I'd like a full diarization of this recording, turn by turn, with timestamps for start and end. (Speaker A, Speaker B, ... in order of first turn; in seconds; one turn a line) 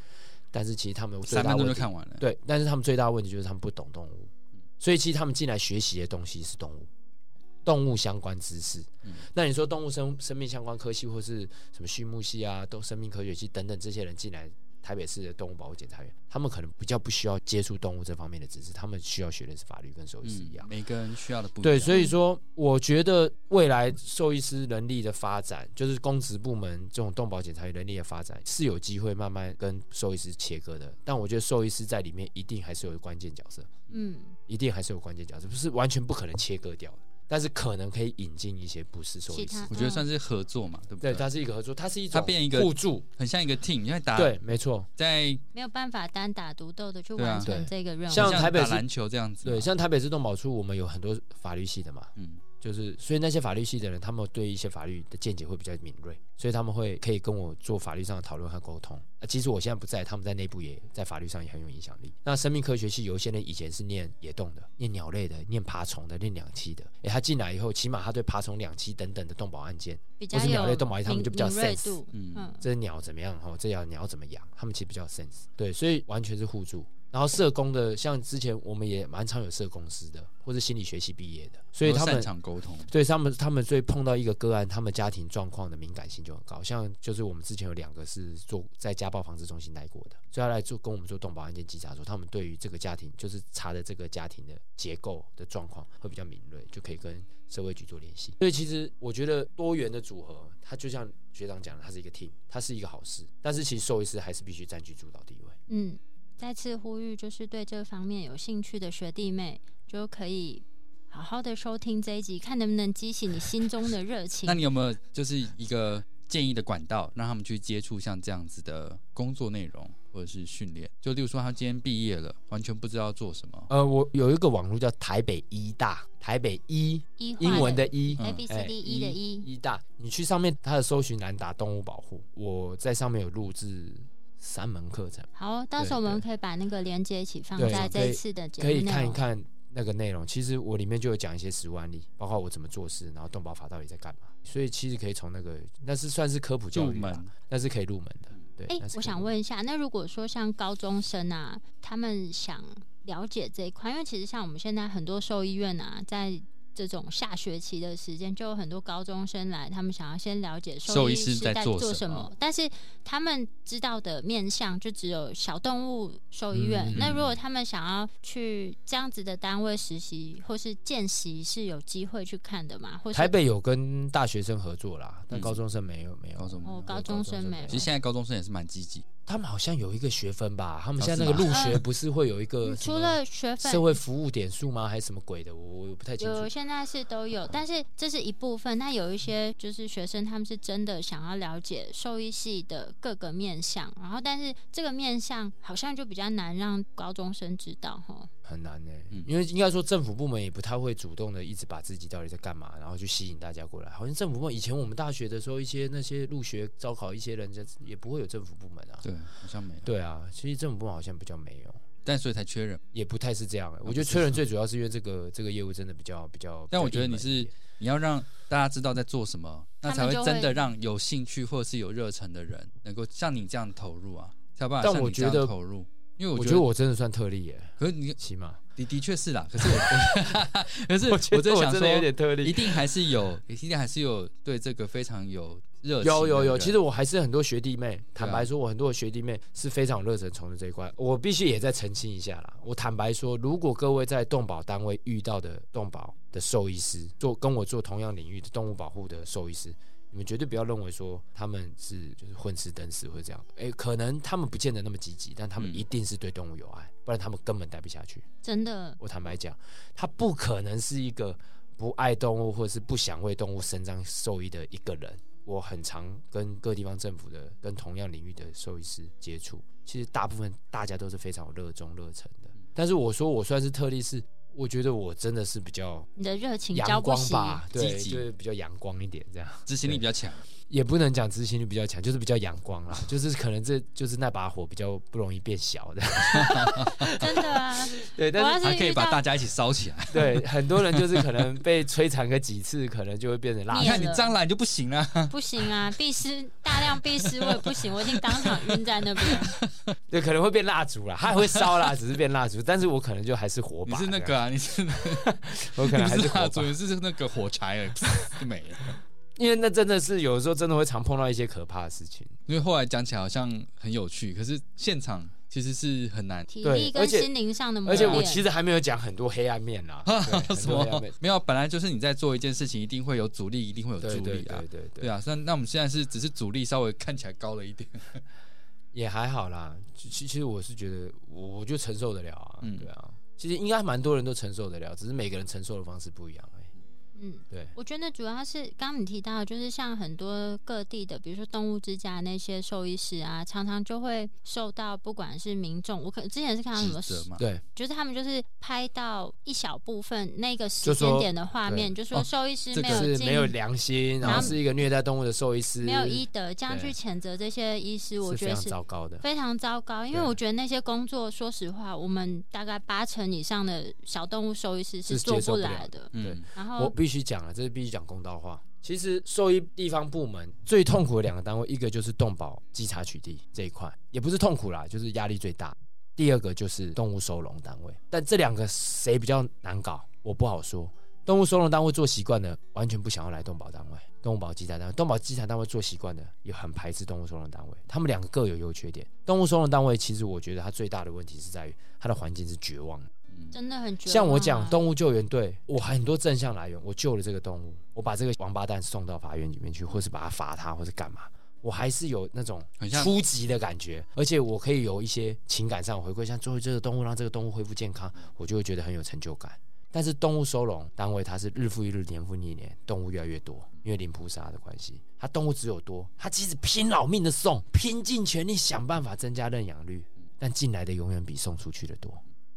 Speaker A: 0.5-6.9
Speaker B: 1.3-2.2
Speaker A: 7.6-20.7
Speaker B: 20.2-22.0
Speaker A: 21.6-33.7
Speaker C: 33.9-34.4
Speaker A: 34.5-39.7
Speaker C: 39.3-40.1
Speaker B: 39.7-41.3
Speaker A: 41.0-43.1
Speaker B: 42.1-44.4
Speaker A: 44.1-44.9
Speaker B: 45.0-45.4
Speaker C: 45.5-48.5
Speaker B: 47.2-47.5
Speaker A: 47.4-48.8
Speaker B: 48.1-49.7
Speaker A: 49.4-72.0
Speaker B: 52.2-52.4
Speaker C: 70.2-72.6
Speaker B: 72.1-72.5
Speaker A: 72.6-82.3
Speaker B: 81.8-82.9
Speaker A: 82.9-105.6
Speaker C: 105.7-114.6
Speaker B: 114.5-123.7
Speaker A: 123.7-136.2
Speaker C: 127.2-129.5
Speaker B: 128.2-128.4
Speaker C: 135.3-139.2
Speaker B: 137.6-138.0
Speaker A: 137.6-149.3
Speaker B: 146.7-147.3
Speaker C: 148.7-173.3
Speaker B: 160.9-162.3
Speaker A: 166.5-167.2
Speaker B: 166.9-167.3
Speaker A: 173.1-177.9
Speaker B: 175.3-175.6
Speaker B: 176.4-176.9
Speaker C: 176.6-177.9
Speaker B: 177.7-179.1
Speaker A: 179.3-186.5
Speaker B: 181.0-181.8
Speaker C: 181.4-181.8
Speaker C: 182.6-184.0
Speaker C: 186.2-198.3
Speaker A: 198.4-209.0
Speaker B: 209.0-209.9
Speaker A: 209.8-211.8
Speaker B: 212.0-212.8
Speaker A: 212.9-217.5
Speaker B: 213.8-214.4
Speaker B: 216.7-226.7
Speaker C: 219.8-220.6
Speaker A: 224.8-225.5
Speaker A: 226.3-228.6
Speaker B: 227.8-228.2
Speaker B: 228.8-236.8
Speaker A: 229.6-230.3
Speaker A: 231.1-232.8
Speaker A: 236.0-258.2
Speaker B: 238.2-238.5
Speaker C: 258.4-259.0
Speaker A: 259.0-276.1
Speaker C: 276.2-277.6
Speaker A: 276.7-280.0
Speaker B: 277.7-278.2
Speaker B: 279.7-280.4
Speaker A: 280.7-288.6
Speaker B: 286.3-286.9
Speaker C: 287.0-289.2
Speaker B: 288.6-291.4
Speaker A: 290.1-294.1
Speaker C: 293.7-294.4
Speaker B: 293.8-295.7
Speaker C: 295.3-299.6
Speaker B: 296.7-299.9
Speaker A: 300.1-304.4
Speaker B: 301.4-301.9
Speaker B: 303.9-309.0
Speaker A: 305.0-306.7
Speaker A: 309.4-312.4
Speaker B: 312.5-316.5
Speaker C: 316.5-318.4
Speaker A: 316.6-317.3
Speaker A: 317.8-321.1
Speaker B: 317.9-318.3
Speaker B: 320.1-328.2
Speaker A: 324.0-325.1
Speaker A: 328.9-336.7
Speaker B: 332.6-332.9
Speaker C: 337.1-353.5
Speaker A: 337.5-337.7
Speaker B: 346.7-347.4
Speaker A: 347.4-347.6
Speaker A: 350.8-351.9
Speaker B: 352.1-353.1
Speaker A: 352.9-356.9
Speaker C: 354.2-354.6
Speaker B: 354.2-354.6
Speaker C: 355.8-366.9
Speaker A: 358.2-359.2
Speaker A: 365.1-393.1
Speaker B: 366.1-366.5
Speaker C: 393.5-394.8
Speaker A: 394.1-422.2
Speaker B: 402.8-403.1